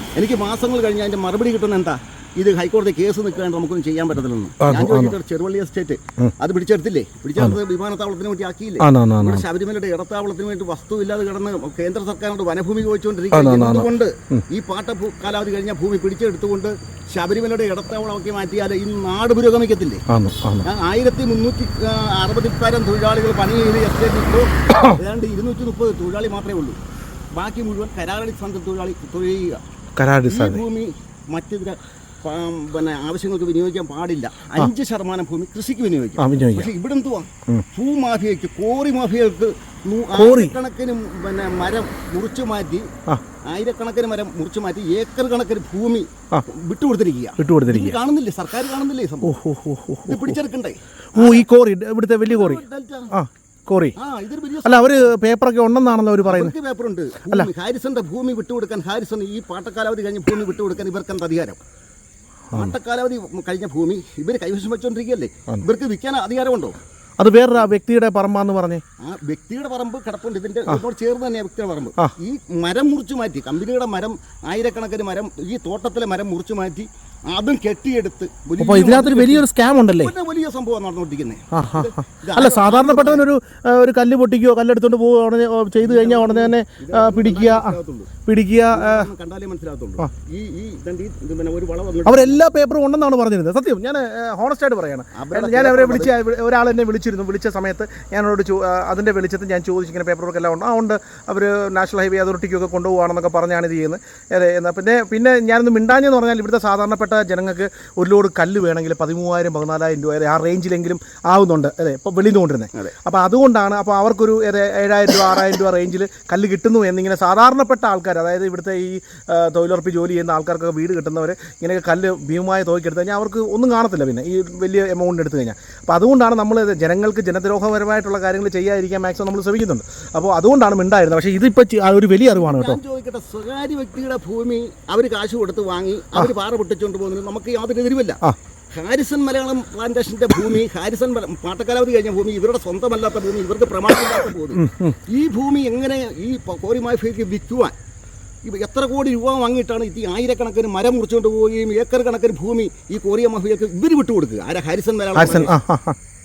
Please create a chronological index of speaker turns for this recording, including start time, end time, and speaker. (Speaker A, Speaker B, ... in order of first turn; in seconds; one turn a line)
Speaker A: 0.2-20.0
Speaker B: 4.6-5.2
Speaker B: 8.8-9.4
Speaker B: 13.3-14.4
Speaker B: 20.1-20.7
Speaker A: 20.6-26.8
Speaker A: 27.3-29.6
Speaker B: 30.0-30.6
Speaker A: 30.3-42.9
Speaker B: 36.2-36.7
Speaker B: 40.1-40.6
Speaker A: 43.5-49.4
Speaker B: 47.4-48.0
Speaker B: 49.2-50.4
Speaker A: 50.1-51.5
Speaker B: 51.1-54.0
Speaker A: 52.3-53.1
Speaker A: 54.0-55.1
Speaker B: 54.6-56.5
Speaker A: 56.2-61.6
Speaker A: 62.5-66.8
Speaker B: 67.2-68.8
Speaker A: 69.0-79.5
Speaker B: 78.6-80.1
Speaker A: 80.0-83.2
Speaker B: 81.5-89.1
Speaker A: 85.8-88.1
Speaker A: 88.7-92.4
Speaker B: 92.0-132.8
Speaker A: 95.2-96.1
Speaker A: 132.3-138.2
Speaker A: 138.7-147.8
Speaker B: 144.5-145.0
Speaker A: 148.4-155.5
Speaker B: 155.2-156.0